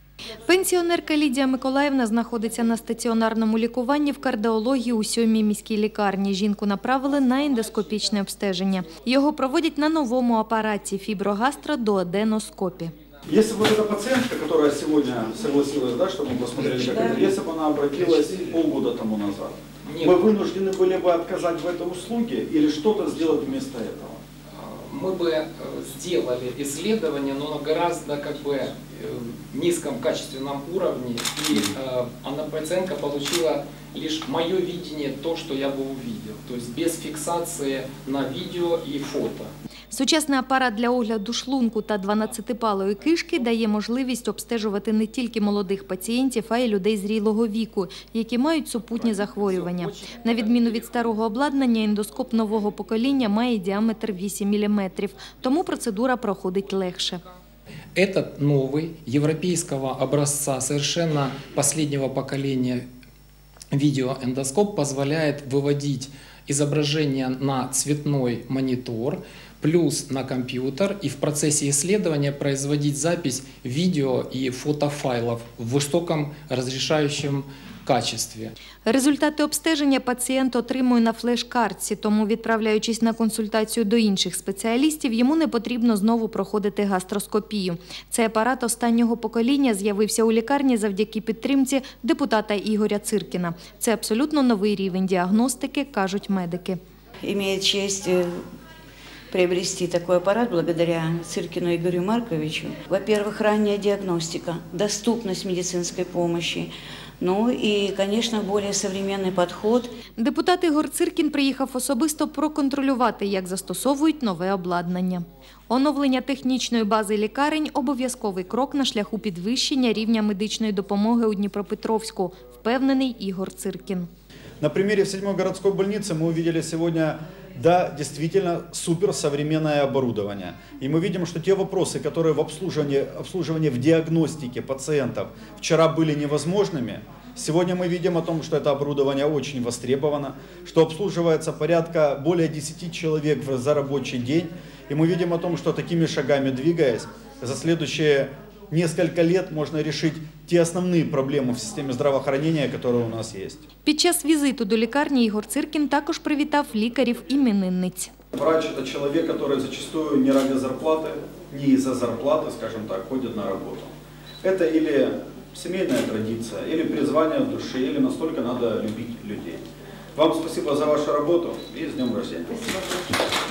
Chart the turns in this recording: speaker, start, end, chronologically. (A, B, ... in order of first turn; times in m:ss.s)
0:00.4-0:12.9 A
0:13.3-0:24.2 B
0:18.0-0:18.3 C
0:19.8-0:20.3 C
0:24.5-0:39.5 C
0:39.9-0:57.2 A
0:58.0-1:02.8 C
1:03.7-1:18.5 C
1:18.8-1:36.8 A
1:37.2-1:38.4 D
1:39.3-1:49.9 D
1:50.2-2:04.1 A
2:04.6-2:33.6 B
2:33.8-2:38.1 A
2:38.3-2:49.6 B
2:50.1-2:52.9 B